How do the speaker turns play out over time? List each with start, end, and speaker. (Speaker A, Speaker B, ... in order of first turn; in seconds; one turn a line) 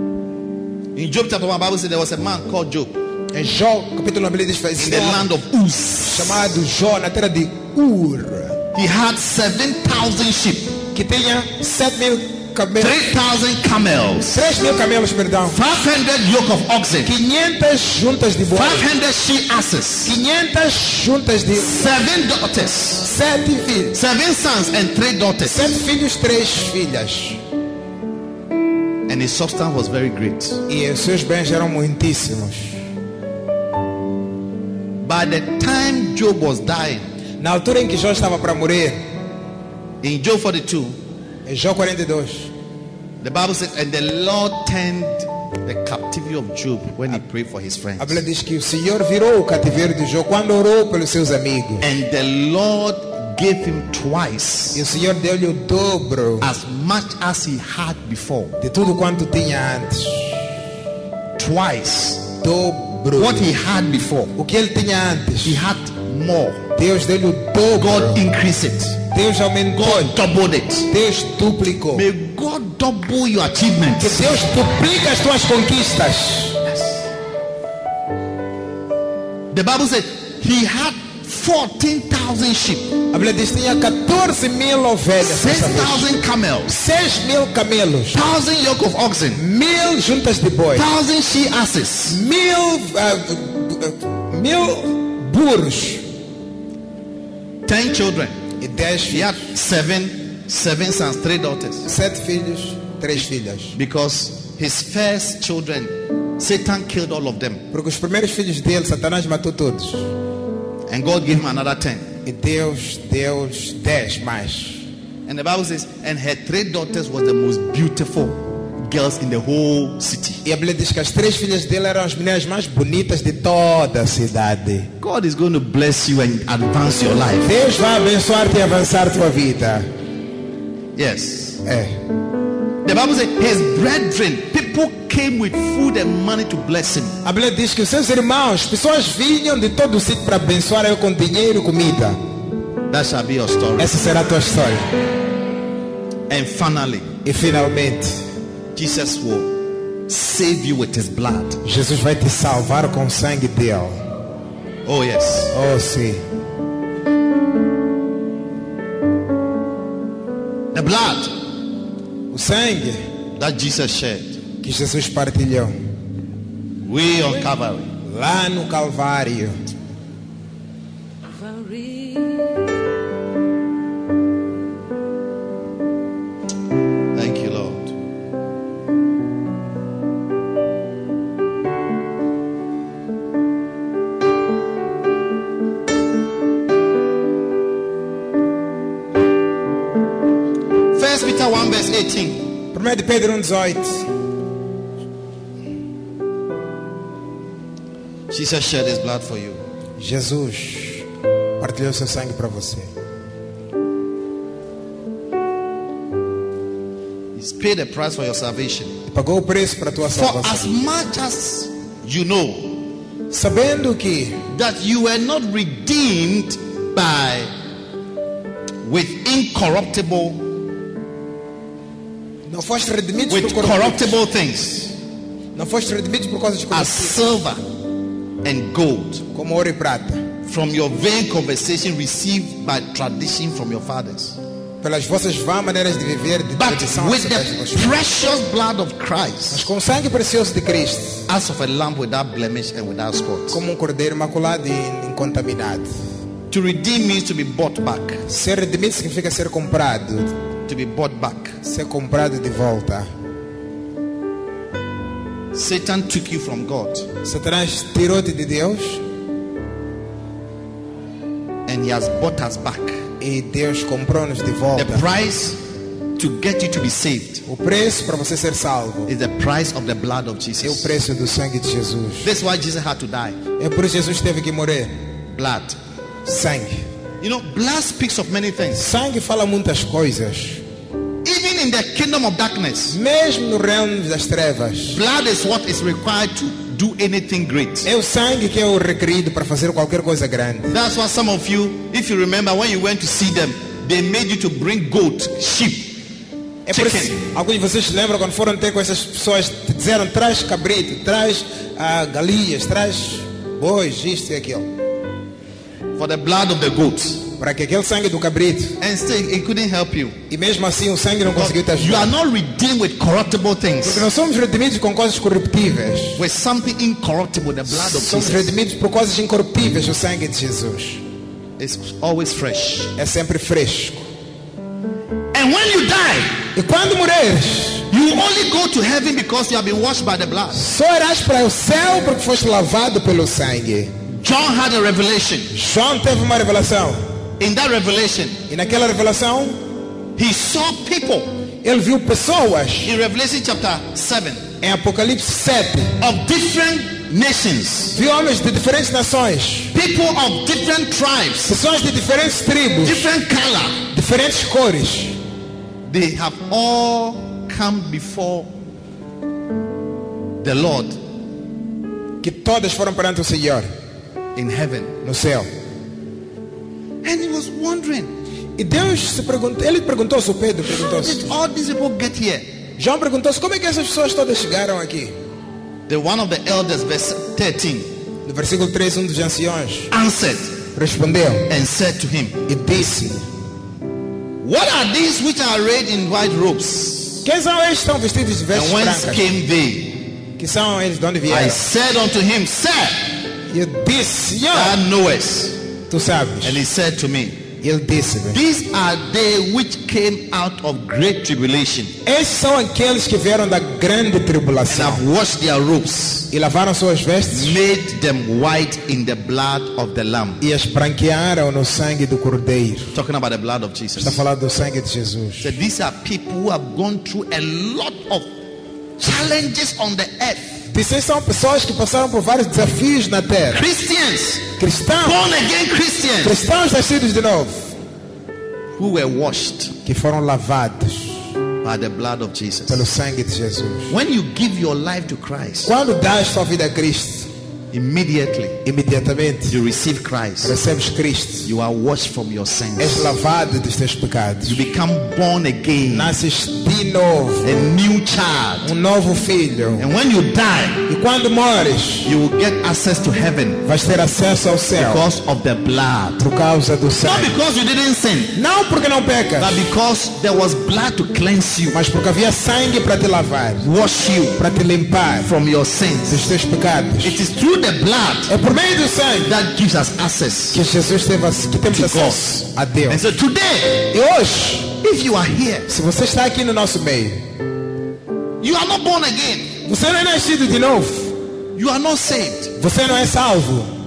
Speaker A: 0.9-3.0
Speaker B: 3.3-5.3
Speaker A: 4.8-6.4
Speaker B: 6.1-8.6
Speaker A: 8.7-10.8
Speaker B: 10.9-13.0
Speaker A: 12.8-14.5
Speaker B: 14.3-15.6
Speaker A: 15.4-17.1
Speaker B: 17.0-18.9
Speaker A: 18.5-20.1
Speaker B: 20.0-21.9
Speaker A: 21.6-23.1
Speaker B: 23.0-24.0
Speaker A: 23.9-25.7
Speaker B: 25.4-27.4
Speaker A: 29.1-30.6
Speaker B: 30.7-32.8
Speaker A: 35.0-37.1
Speaker B: 37.4-39.0
Speaker A: 40.0-41.0
Speaker B: 41.5-42.5
Speaker A: 43.2-48.2
Speaker B: 48.0-51.8
Speaker A: 51.8-54.8
Speaker B: 54.7-56.5
Speaker A: 56.4-58.6
Speaker B: 58.6-60.4
Speaker A: 61.4-62.3
Speaker B: 62.4-63.5
Speaker A: 63.1-64.3
Speaker B: 64.3-65.6
Speaker A: 65.4-66.7
Speaker B: 66.8-68.2
Speaker A: 67.8-69.0
Speaker B: 69.1-70.2
Speaker A: 69.8-70.9
Speaker B: 70.9-72.1
Speaker A: 72.0-74.3
Speaker B: 74.0-76.6
Speaker A: 79.5-83.0
Speaker B: 83.1-86.1
Speaker A: 85.2-86.7
Speaker B: 86.7-88.2
Speaker A: 88.1-89.4
Speaker B: 89.3-90.9
Speaker A: 90.8-92.2
Speaker B: 92.1-96.0
Speaker A: 97.7-98.3
Speaker B: 98.6-99.3
Speaker A: 99.1-101.8
Speaker B: 101.8-103.8
Speaker A: 103.7-107.6
Speaker B: 107.7-110.1
Speaker A: 110.9-112.1
Speaker B: 112.2-114.8
Speaker A: 115.2-120.4
Speaker B: 120.4-124.9
Speaker A: 125.0-127.5
Speaker B: 127.4-129.9
Speaker A: 130.9-131.6
Speaker B: 131.6-132.0
Speaker A: 132.8-137.2
Speaker B: 137.2-142.2
Speaker A: 142.9-143.9
Speaker B: 143.8-144.8
Speaker A: 146.3-147.1
Speaker B: 147.2-148.2
Speaker A: 148.7-149.5
Speaker A: 150.1-151.6
Speaker B: 151.6-154.0
Speaker A: 154.8-155.5
Speaker B: 155.5-156.2
Speaker A: 160.7-161.3
Speaker B: 162.3-163.0
Speaker A: 163.3-164.4
Speaker B: 164.6-165.7
Speaker A: 166.8-167.9
Speaker B: 168.0-169.6
Speaker A: 177.1-177.9
Speaker A: 190.9-192.5
Speaker B: 192.7-194.1
Speaker A: 198.3-199.6
Speaker B: 200.0-201.1
Speaker B: 201.6-202.9
Speaker A: 207.3-209.0
Speaker B: 209.1-210.7
Speaker A: 210.1-212.8
Speaker B: 213.3-214.4
Speaker A: 214.5-217.5
Speaker A: 218.8-220.4
Speaker B: 222.5-224.2
Speaker A: 223.3-224.9
Speaker B: 225.5-227.2
Speaker A: 226.7-227.6
Speaker A: 228.4-229.2
Speaker B: 229.3-230.3
Speaker A: 230.4-234.4
Speaker B: 234.8-238.0
Speaker A: 236.6-239.7
Speaker B: 239.5-241.2
Speaker A: 241.3-243.6
Speaker B: 243.5-245.9
Speaker A: 246.5-248.2
Speaker B: 248.3-250.3
Speaker A: 250.7-251.6
Speaker B: 251.6-253.1
Speaker A: 255.5-257.1
Speaker B: 257.2-259.0
Speaker A: 261.7-263.0
Speaker B: 263.2-265.0
Speaker A: 264.7-265.6
Speaker A: 266.2-267.4
Speaker B: 267.5-269.1
Speaker A: 269.1-270.9
Speaker B: 270.6-272.3
Speaker A: 272.2-273.4
Speaker B: 273.6-274.9
Speaker A: 275.3-275.8
Speaker B: 276.2-276.8
Speaker A: 277.2-278.8
Speaker B: 278.7-280.6
Speaker A: 281.2-283.0
Speaker B: 282.9-285.0
Speaker A: 284.9-287.9
Speaker B: 287.8-290.7
Speaker A: 290.7-296.0
Speaker B: 296.7-304.7
Speaker A: 296.7-297.1
Speaker A: 305.9-307.2
Speaker B: 307.4-308.8
Speaker A: 308.8-310.2
Speaker B: 310.3-312.1
Speaker A: 311.4-314.0
Speaker B: 313.8-316.2
Speaker A: 316.1-318.5
Speaker B: 317.7-321.0
Speaker A: 321.6-322.9
Speaker B: 322.9-324.0
Speaker A: 325.3-326.4
Speaker B: 326.5-327.9
Speaker A: 327.9-330.6
Speaker B: 330.5-333.9
Speaker A: 334.2-335.5
Speaker B: 335.5-337.0
Speaker A: 337.4-338.4
Speaker B: 338.5-339.6
Speaker A: 340.1-341.3
Speaker B: 341.6-342.9
Speaker A: 342.8-344.4
Speaker B: 344.6-346.0
Speaker A: 346.0-348.0
Speaker B: 347.9-349.7
Speaker A: 349.7-351.6
Speaker B: 351.5-353.1
Speaker A: 352.8-353.8
Speaker B: 353.9-355.2
Speaker A: 355.9-358.5
Speaker A: 360.4-361.0
Speaker B: 362.2-363.7
Speaker A: 364.3-365.0
Speaker B: 365.0-365.5
Speaker A: 367.0-368.1
Speaker B: 368.6-371.3
Speaker A: 370.7-372.4
Speaker B: 372.8-375.1
Speaker A: 375.9-377.9
Speaker B: 378.2-379.9
Speaker A: 379.9-380.6
Speaker B: 380.7-381.5
Speaker A: 381.5-382.4
Speaker B: 382.5-383.2
Speaker A: 384.4-387.2
Speaker B: 387.2-389.2
Speaker A: 388.5-390.1
Speaker B: 390.4-391.6
Speaker A: 391.3-393.1
Speaker B: 393.5-394.8
Speaker A: 394.5-395.6
Speaker B: 395.9-396.6
Speaker A: 396.4-397.4
Speaker B: 397.6-398.4
Speaker A: 398.3-401.9
Speaker B: 402.0-405.0
Speaker A: 404.7-406.3
Speaker B: 406.3-407.6
Speaker A: 407.3-410.4
Speaker B: 410.4-412.9
Speaker A: 412.9-414.2
Speaker B: 414.0-415.5
Speaker A: 415.4-418.3
Speaker A: 419.0-420.6
Speaker B: 420.7-423.7
Speaker A: 423.5-424.5
Speaker B: 424.6-425.2
Speaker A: 425.0-426.4
Speaker B: 426.2-427.7
Speaker A: 428.8-429.8
Speaker B: 429.8-431.2
Speaker A: 431.6-432.8
Speaker B: 432.7-433.9
Speaker A: 433.9-435.7
Speaker B: 435.6-437.3
Speaker A: 437.7-438.6
Speaker B: 438.6-439.6
Speaker A: 439.5-440.6
Speaker B: 440.4-441.5
Speaker A: 441.4-443.1
Speaker B: 442.8-444.6
Speaker A: 444.5-446.1
Speaker B: 445.9-447.5
Speaker A: 447.4-448.7
Speaker B: 448.6-449.9
Speaker A: 449.8-450.8
Speaker B: 450.9-452.1
Speaker A: 452.0-453.6
Speaker B: 453.6-455.0
Speaker A: 454.8-456.2
Speaker B: 456.2-457.3
Speaker A: 457.0-458.3
Speaker B: 458.3-459.7
Speaker A: 459.4-461.8
Speaker B: 461.7-463.7
Speaker A: 463.6-464.4
Speaker B: 464.4-465.3
Speaker A: 465.2-466.3
Speaker B: 466.1-467.2
Speaker A: 467.0-468.3
Speaker B: 468.3-469.4
Speaker A: 469.2-470.6
Speaker B: 470.5-473.0
Speaker A: 471.7-473.9
Speaker B: 473.9-474.7
Speaker A: 474.8-475.7
Speaker B: 475.7-477.2
Speaker A: 478.4-479.5
Speaker B: 479.6-481.1
Speaker A: 481.5-482.5
Speaker B: 482.6-483.7